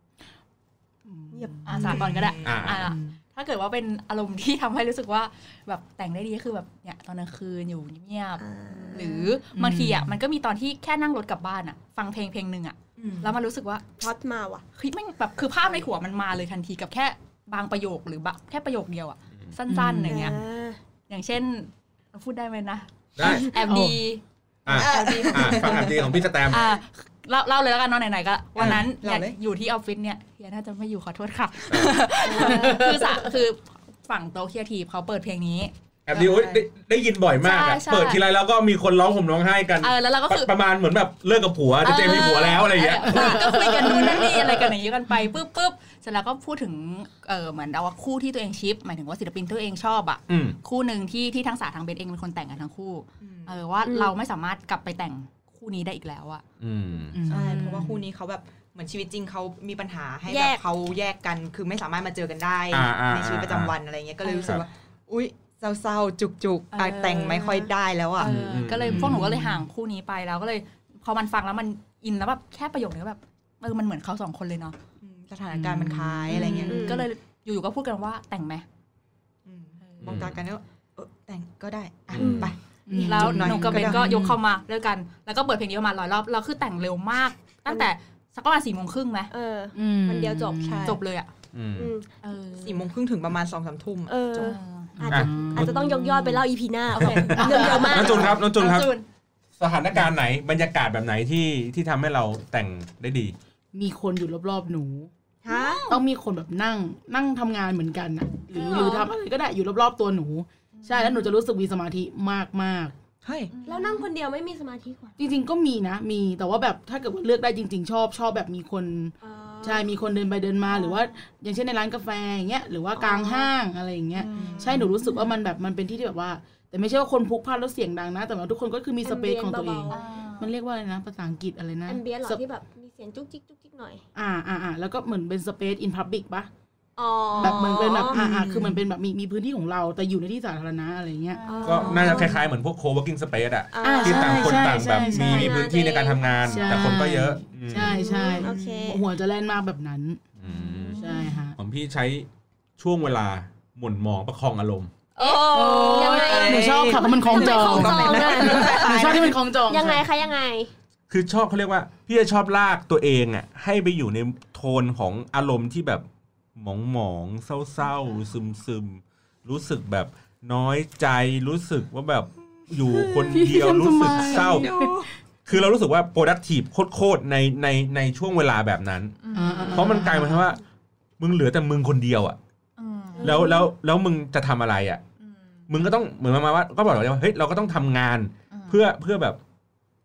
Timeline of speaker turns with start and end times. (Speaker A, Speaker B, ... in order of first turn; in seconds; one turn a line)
Speaker A: 1.1-2.3
Speaker B: 1.3-2.0
Speaker C: 1.7-13.8
Speaker D: 1.8-2.7
Speaker E: 2.4-2.9
Speaker A: 2.8-3.2
Speaker B: 8.4-9.3
Speaker A: 9.5-10.2
Speaker D: 13.0-13.4
Speaker B: 14.0-14.6
Speaker C: 14.8-20.4
Speaker A: 19.7-20.3
Speaker B: 20.1-20.8
Speaker C: 21.1-25.9
Speaker E: 23.2-23.5
Speaker B: 23.2-23.5
Speaker A: 23.6-24.0
Speaker E: 24.7-26.7
Speaker B: 24.8-25.7
Speaker D: 24.8-25.9
Speaker C: 26.5-36.3
Speaker D: 28.6-29.4
Speaker E: 31.7-32.0
Speaker A: 32.2-33.2
Speaker E: 36.1-43.5
Speaker D: 36.1-36.6
Speaker C: 37.4-38.2
Speaker C: 39.8-40.5
Speaker C: 41.8-56.4
Speaker A: 43.1-45.2
Speaker E: 50.3-50.6
Speaker D: 53.2-53.5
Speaker B: 53.9-54.1
Speaker E: 56.6-57.2
Speaker A: 57.1-58.0
Speaker D: 57.3-68.3
Speaker B: 60.3-60.6
Speaker E: 62.7-63.8
Speaker C: 64.2-64.6
Speaker C: 66.7-74.8
Speaker E: 68.2-69.2
Speaker A: 68.9-69.6
Speaker D: 75.0-77.1
Speaker A: 75.6-76.9
Speaker C: 76.4-78.7
Speaker B: 76.7-77.1
Speaker D: 79.5-84.1
Speaker C: 79.8-80.2
Speaker E: 80.0-80.4
Speaker E: 82.1-82.5
Speaker B: 82.2-82.5
Speaker A: 82.9-84.4
Speaker C: 82.9-89.3
Speaker B: 89.3-90.9
Speaker A: 89.8-91.0
Speaker D: 90.6-91.0
Speaker C: 90.9-91.3
Speaker E: 91.5-91.9
Speaker B: 91.8-92.1
Speaker C: 92.2-92.9
Speaker D: 92.6-94.6
Speaker B: 94.1-98.4
Speaker C: 94.4-96.4
Speaker A: 95.0-95.8
Speaker E: 95.1-95.8
Speaker C: 96.9-99.0
Speaker E: 97.0-97.3
Speaker A: 97.3-98.2
Speaker E: 97.9-98.9
Speaker E: 99.6-103.3
Speaker A: 103.7-105.1
Speaker B: 105.4-105.9
Speaker C: 105.5-106.0
Speaker A: 105.9-112.9
Speaker B: 108.5-109.1
Speaker C: 108.6-109.0
Speaker C: 110.7-111.3
Speaker D: 113.2-113.5
Speaker C: 113.5-114.1
Speaker B: 113.7-115.2
Speaker A: 115.2-132.4
Speaker B: 119.2-119.9
Speaker B: 123.0-123.5
Speaker C: 124.2-125.2
Speaker B: 124.3-124.9
Speaker D: 124.3-124.9
Speaker B: 129.0-130.0
Speaker C: 129.9-130.5
Speaker B: 131.9-134.0
Speaker A: 134.2-136.5
Speaker B: 137.0-138.2
Speaker A: 137.4-141.4
Speaker D: 137.4-138.8
Speaker C: 141.3-142.3
Speaker B: 141.4-142.4
Speaker E: 141.6-148.1
Speaker B: 143.7-147.0
Speaker A: 143.8-145.5
Speaker A: 146.5-150.2
Speaker B: 147.8-149.0
Speaker D: 148.4-149.0
Speaker E: 150.4-154.9
Speaker B: 150.5-151.4
Speaker A: 151.0-151.6
Speaker B: 155.2-158.9
Speaker A: 155.5-160.1
Speaker D: 155.6-159.4
Speaker B: 159.7-160.7
Speaker E: 161.1-166.1
Speaker E: 166.6-174.7
Speaker D: 172.9-173.2
Speaker A: 173.3-175.1
Speaker D: 174.3-175.1
Speaker E: 175.4-179.2
Speaker C: 179.2-180.0
Speaker A: 179.3-180.4
Speaker E: 179.7-180.6
Speaker E: 181.2-182.4
Speaker C: 182.8-183.4
Speaker B: 183.2-183.7
Speaker E: 183.2-185.0
Speaker E: 185.7-189.4
Speaker C: 188.5-188.8